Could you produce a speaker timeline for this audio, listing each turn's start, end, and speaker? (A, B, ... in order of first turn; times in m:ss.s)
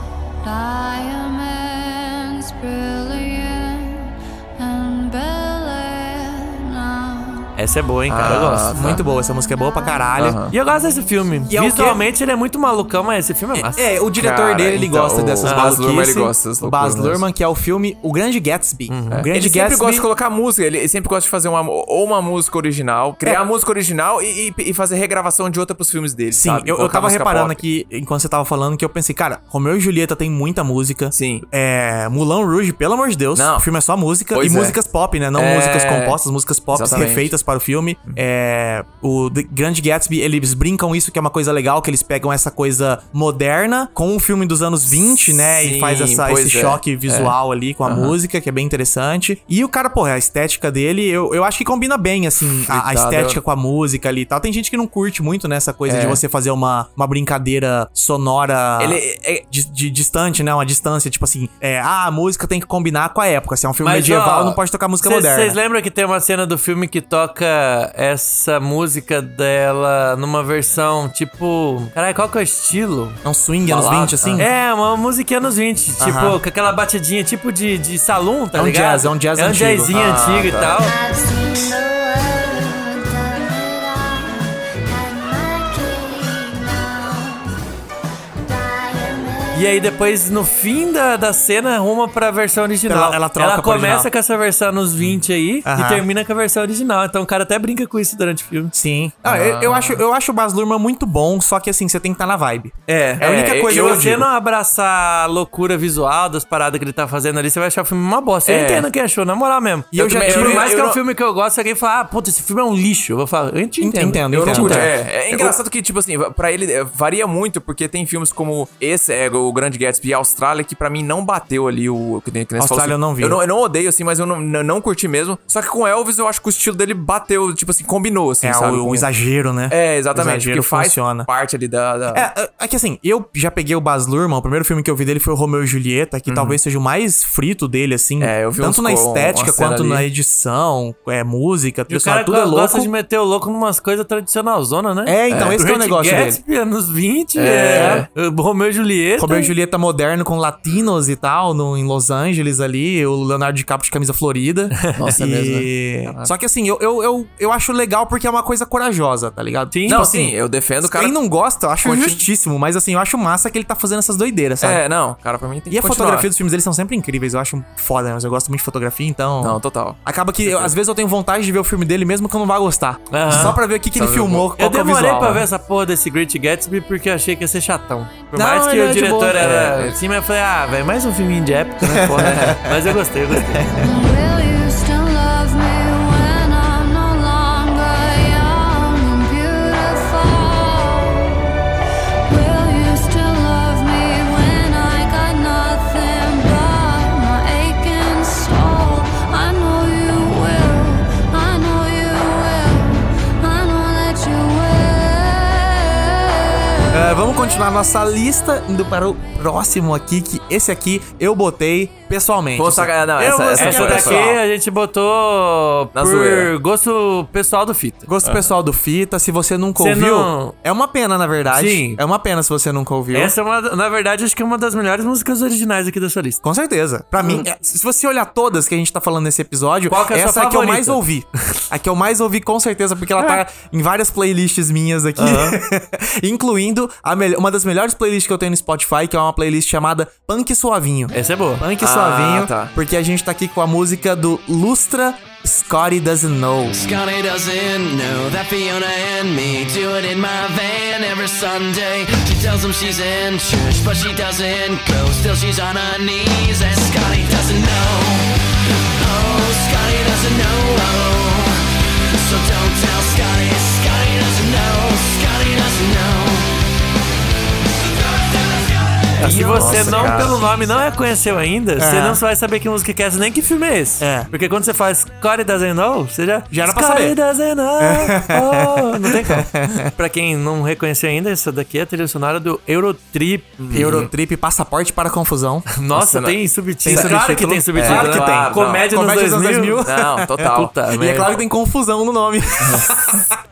0:00.4-0:07.5 A
0:07.6-0:08.8 B
0:08.1-0:09.0 C
0:08.7-0:10.4 D
0:10.2-0:10.5 C
0:10.4-0:13.8 B
0:11.5-0:12.0 D
0:13.6-0:20.1 D
0:14.2-0:17.2 C
0:15.4-0:15.8 B
0:18.9-0:19.2 B
0:19.1-0:27.6 C
0:26.3-1:05.6 D
0:31.1-0:31.4 C
0:33.3-0:33.6 C
0:34.3-0:34.8 C
0:35.3-0:36.2 C
0:36.7-0:37.3 C
0:45.4-0:48.1 C
0:52.7-0:53.4 C
0:55.9-0:56.2 C
0:58.8-0:59.4 C
1:03.8-1:13.2 B
1:13.2-1:14.5 D
1:13.7-1:14.4 C
1:14.4-1:20.9 B
1:16.0-1:16.4 D
1:18.5-1:19.9 D
1:19.9-1:20.8 C
1:21.1-1:27.5 A
1:28.5-1:29.6 A
1:29.5-1:38.7 B
1:32.9-1:34.1 D
1:35.6-1:36.0 D
1:38.7-1:44.2 D
1:39.2-1:40.0 C
1:42.9-1:44.1 C
1:43.7-1:54.9 B
1:48.4-1:48.9 C
1:49.9-1:50.7 D
1:50.0-1:51.0 C
1:53.8-1:55.6 D
1:54.3-2:09.1 C
2:02.6-2:03.4 D
2:08.4-2:11.3 D
2:09.7-2:12.3 C
2:12.1-2:22.9 D
2:16.2-2:16.6 C
2:18.2-2:20.1 C
2:21.9-2:29.5 B
2:25.0-2:26.4 D
2:25.3-2:25.6 C
2:27.4-2:28.1 C
2:27.7-2:28.0 D
2:29.2-2:44.8 D
2:35.0-2:36.3 C
2:39.7-2:40.0 B
2:39.9-2:41.2 C
2:41.8-2:42.2 C
2:44.6-2:46.3 C
2:45.7-2:55.4 D
2:49.4-2:50.7 C
2:53.1-2:53.6 B
2:53.3-2:54.5 C
2:54.6-3:03.6 B
2:58.3-2:59.5 D
2:59.4-3:00.0 C
3:01.8-3:02.7 D
3:01.9-3:02.6 C
3:03.5-3:03.9 D
3:03.8-3:11.5 A
3:12.3-3:27.0 A
3:26.9-3:34.3 D
3:32.6-3:34.4 C
3:33.6-3:38.1 B
3:35.9-3:36.5 C
3:38.1-3:43.3 D
3:39.8-3:40.5 B
3:41.5-3:42.0 B
3:43.1-3:46.4 B
3:46.4-4:06.8 D
3:49.9-3:51.0 B
3:55.2-3:55.6 B
4:01.1-4:01.6 B
4:01.8-4:02.7 C
4:06.7-4:18.3 E
4:18.9-4:26.6 E
4:28.4-4:28.7 E
4:29.2-4:43.8 B
4:29.2-4:30.4 D
4:29.2-4:30.4 C
4:31.8-4:32.2 D
4:34.0-4:34.3 D
4:36.5-4:37.2 D
4:37.8-4:39.9 D
4:43.6-4:44.1 C
4:43.7-4:45.7 D
4:45.7-4:49.8 B
4:45.9-4:47.1 C
4:46.8-4:53.4 D
4:47.7-4:48.9 C
4:49.8-4:50.7 C
4:50.5-4:51.4 B
4:52.6-4:53.2 C